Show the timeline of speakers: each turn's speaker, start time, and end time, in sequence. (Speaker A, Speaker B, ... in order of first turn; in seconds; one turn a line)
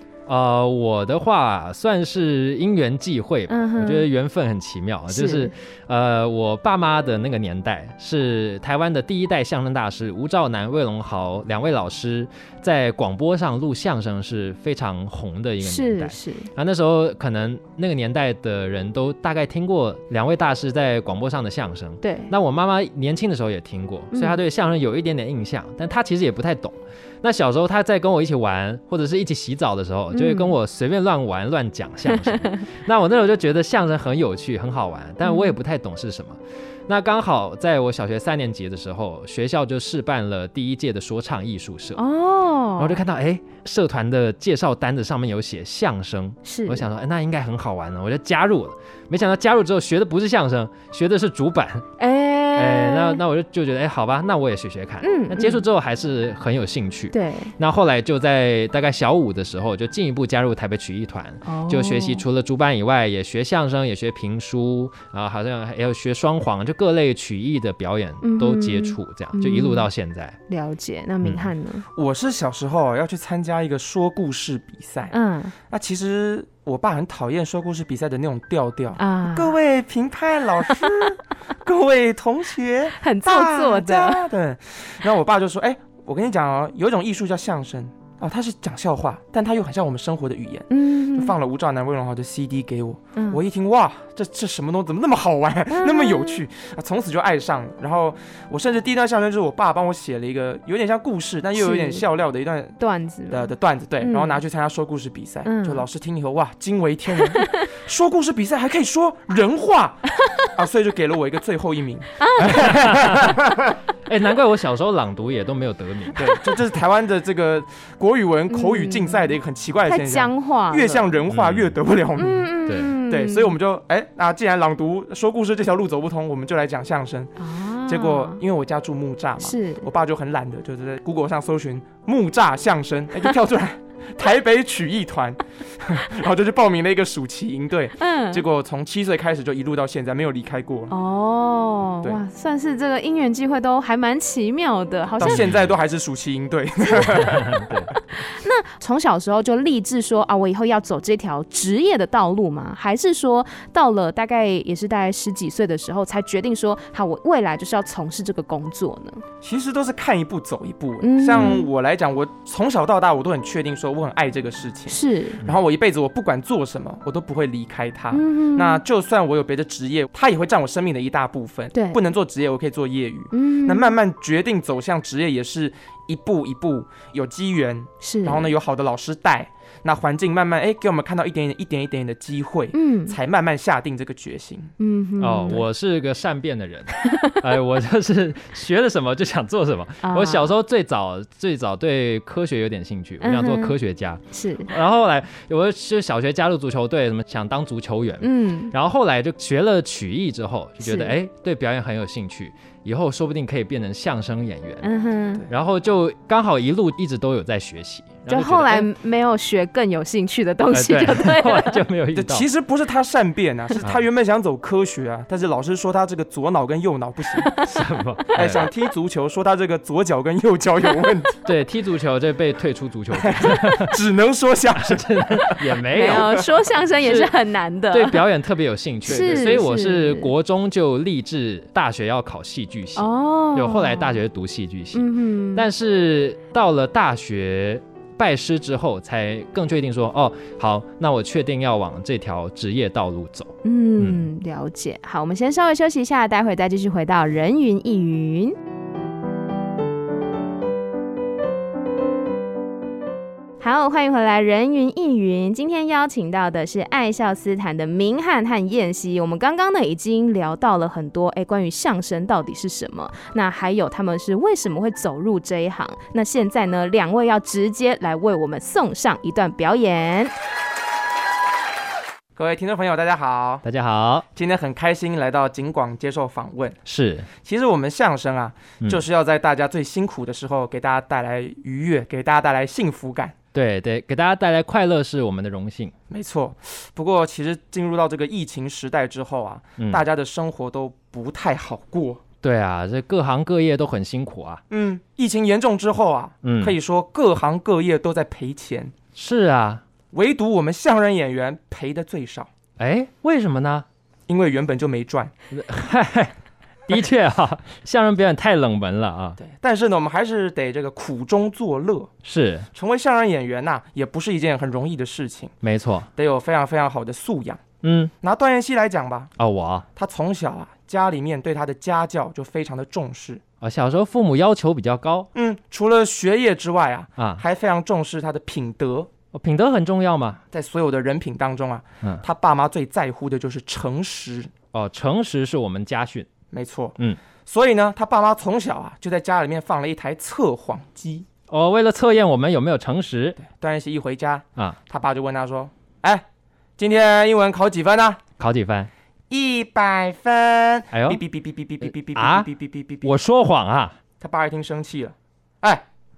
Speaker A: 0.3-42.0
Speaker B: 3.5-4.1
Speaker B: 5.1-5.5
Speaker B: 15.6-16.5
Speaker B: 22.0-22.3
Speaker B: 24.1-24.4
Speaker B: 30.1-30.5
Speaker B: 32.1-32.6
Speaker B: 35.2-35.5
Speaker B: 42.0-43.0
Speaker A: 42.8-51.9
Speaker B: 46.4-46.9
Speaker B: 52.0-53.2
Speaker A: 52.5-70.4
Speaker B: 55.0-55.6
Speaker B: 57.1-57.5
Speaker B: 61.4-62.2
Speaker B: 68.2-69.9
Speaker B: 70.5-71.8
Speaker A: 71.2-71.5
Speaker C: 71.9-75.1
Speaker B: 75.1-75.5
Speaker C: 75.7-102.8
Speaker B: 79.0-79.5
Speaker B: 83.0-84.2
Speaker B: 90.7-91.3
Speaker B: 95.7-96.4
Speaker B: 101.5-102.0
Speaker B: 102.8-104.4
Speaker C: 103.3-113.8
Speaker B: 105.4-105.8
Speaker B: 107.2-107.6
Speaker B: 112.2-112.8
Speaker A: 112.5-113.4
Speaker A: 114.0-116.3
Speaker C: 116.2-122.5
Speaker B: 118.5-119.3
Speaker B: 119.9-121.1
Speaker A: 121.3-121.8
Speaker B: 122.2-123.5
Speaker A: 122.7-122.9
Speaker C: 123.1-140.9
Speaker B: 127.4-128.4
Speaker B: 129.4-129.9
Speaker B: 138.0-138.4
Speaker B: 140.9-145.4
Speaker C: 145.2-147.5
Speaker A: 145.2-145.7
Speaker B: 146.8-159.2
Speaker A: 147.0-147.9
Speaker C: 159.4-184.7
Speaker B: 161.0-161.7
Speaker B: 164.9-165.4
Speaker B: 168.1-168.8
Speaker B: 173.3-173.9
Speaker B: 178.0-178.5
Speaker B: 182.7-183.2
Speaker B: 184.8-185.6
Speaker A: 185.2-204.9
Speaker B: 187.1-187.4
Speaker B: 190.0-190.5
Speaker B: 193.2-193.8
Speaker B: 194.3-194.7
Speaker B: 198.2-198.7
Speaker B: 200.8-201.1
Speaker B: 204.8-205.4
Speaker A: 205.5-208.9
Speaker B: 208.3-211.8
Speaker A: 210.7-212.4
Speaker C: 212.1-217.5
Speaker B: 217.4-217.7
Speaker A: 217.6-218.7
Speaker C: 218.3-221.4
Speaker A: 221.4-223.9
Speaker C: 223.1-226.4
Speaker A: 224.8-226.4
Speaker B: 225.9-228.2
Speaker A: 227.0-227.3
Speaker A: 227.9-244.2
Speaker C: 229.1-229.6
Speaker B: 229.1-230.3
Speaker B: 232.9-234.2
Speaker B: 234.9-235.7
Speaker B: 243.6-248.6
Speaker B: 253.6-270.3
Speaker C: 272.4-273.6
Speaker A: 273.6-274.2
Speaker C: 274.4-276.8
Speaker A: 276.9-277.3
Speaker C: 277.4-283.4
Speaker A: 283.5-285.9
Speaker C: 286.1-292.2
Speaker A: 292.4-294.6
Speaker C: 294.7-298.9
Speaker A: 296.4-296.8
Speaker A: 299.1-299.8
Speaker C: 300.1-302.5
Speaker A: 302.8-303.9
Speaker C: 304.3-305.3
Speaker A: 305.5-306.4
Speaker A: 306.9-309.4
Speaker C: 309.4-312.1
Speaker A: 312.2-312.7
Speaker C: 312.7-315.5
Speaker A: 315.6-316.1
Speaker C: 316.2-317.6
Speaker A: 317.8-318.1
Speaker C: 318.2-319.3
Speaker A: 319.4-319.9
Speaker C: 319.9-323.4
Speaker A: 323.6-325.3
Speaker C: 325.4-329.1
Speaker A: 329.3-330.4
Speaker C: 330.5-334.5
Speaker A: 334.7-336.3
Speaker C: 336.5-341.2
Speaker A: 341.5-343.4
Speaker C: 343.4-346.2
Speaker C: 346.8-348.2
Speaker A: 348.4-348.9
Speaker C: 349.3-353.1
Speaker A: 350.9-351.2
Speaker A: 351.9-352.5
Speaker A: 353.0-354.0
Speaker C: 354.2-355.8